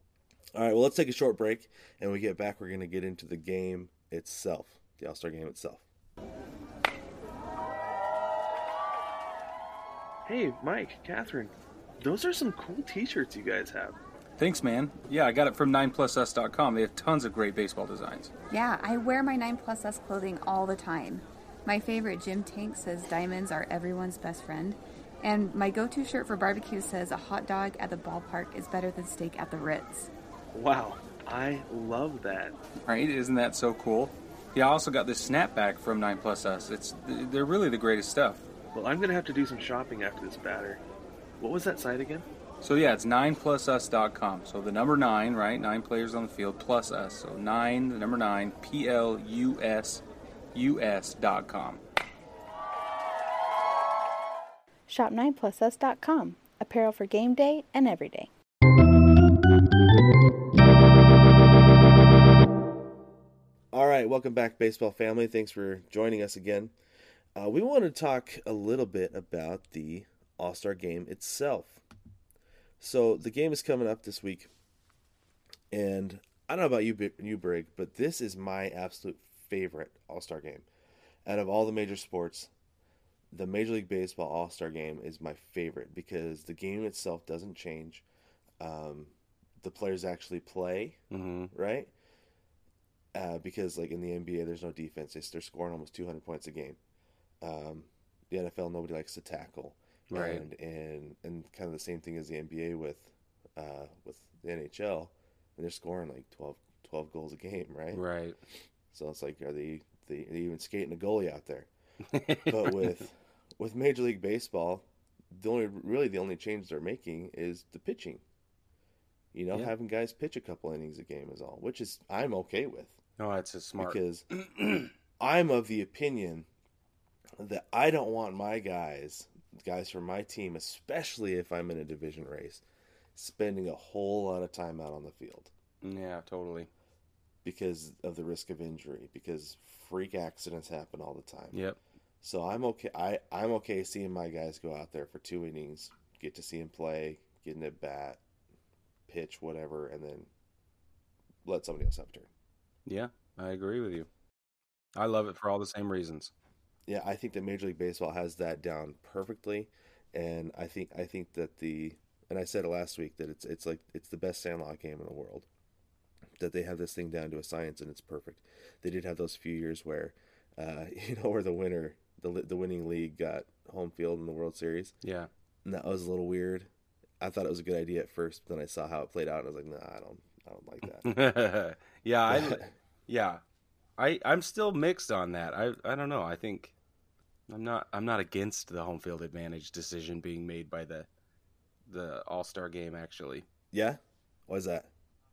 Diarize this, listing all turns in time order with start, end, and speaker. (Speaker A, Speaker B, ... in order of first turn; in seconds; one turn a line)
Speaker A: 0.6-5.8
Speaker B: 10.3-14.0
Speaker C: 14.4-18.3
Speaker D: 18.5-30.1
Speaker B: 30.6-32.5
Speaker C: 32.8-38.5
Speaker B: 38.7-40.8
Speaker B: 41.4-42.3
Speaker C: 42.6-50.0
Speaker C: 50.5-51.8
Speaker E: 54.9-58.3
Speaker A: 63.7-66.7
Speaker A: 67.4-71.8
Speaker A: 72.8-74.5
Speaker A: 75.7-80.7
Speaker A: 81.2-82.5
Speaker A: 83.3-88.0
Speaker A: 88.6-91.0
Speaker F: 91.1-91.5
Speaker A: 91.5-91.9
Speaker A: 93.2-96.8
Speaker A: 97.4-108.0
Speaker F: 100.1-100.5
Speaker F: 107.9-108.4
Speaker A: 108.9-111.7
Speaker F: 112.1-112.9
Speaker A: 112.5-118.2
Speaker A: 119.3-123.0
Speaker F: 123.2-124.0
Speaker A: 123.8-124.2
Speaker F: 124.6-124.9
Speaker A: 125.2-126.5
Speaker A: 127.4-132.6
Speaker A: 133.2-135.5
Speaker F: 135.8-136.7
Speaker A: 137.4-141.6
Speaker F: 141.5-141.8
Speaker A: 142.2-148.2
Speaker A: 149.1-150.3
Speaker A: 151.4-152.3
Speaker F: 152.9-154.1
Speaker F: 154.9-156.3
Speaker A: 156.9-165.5
Speaker A: 166.4-174.9
Speaker F: 175.0-175.3
Speaker A: 175.7-176.7
Speaker A: 177.2-181.2
Speaker F: 181.0-183.4
Speaker A: 182.3-182.7
Speaker F: 184.0-186.7
Speaker F: 187.5-191.1
Speaker F: 191.9-193.5
Speaker A: 193.7-194.9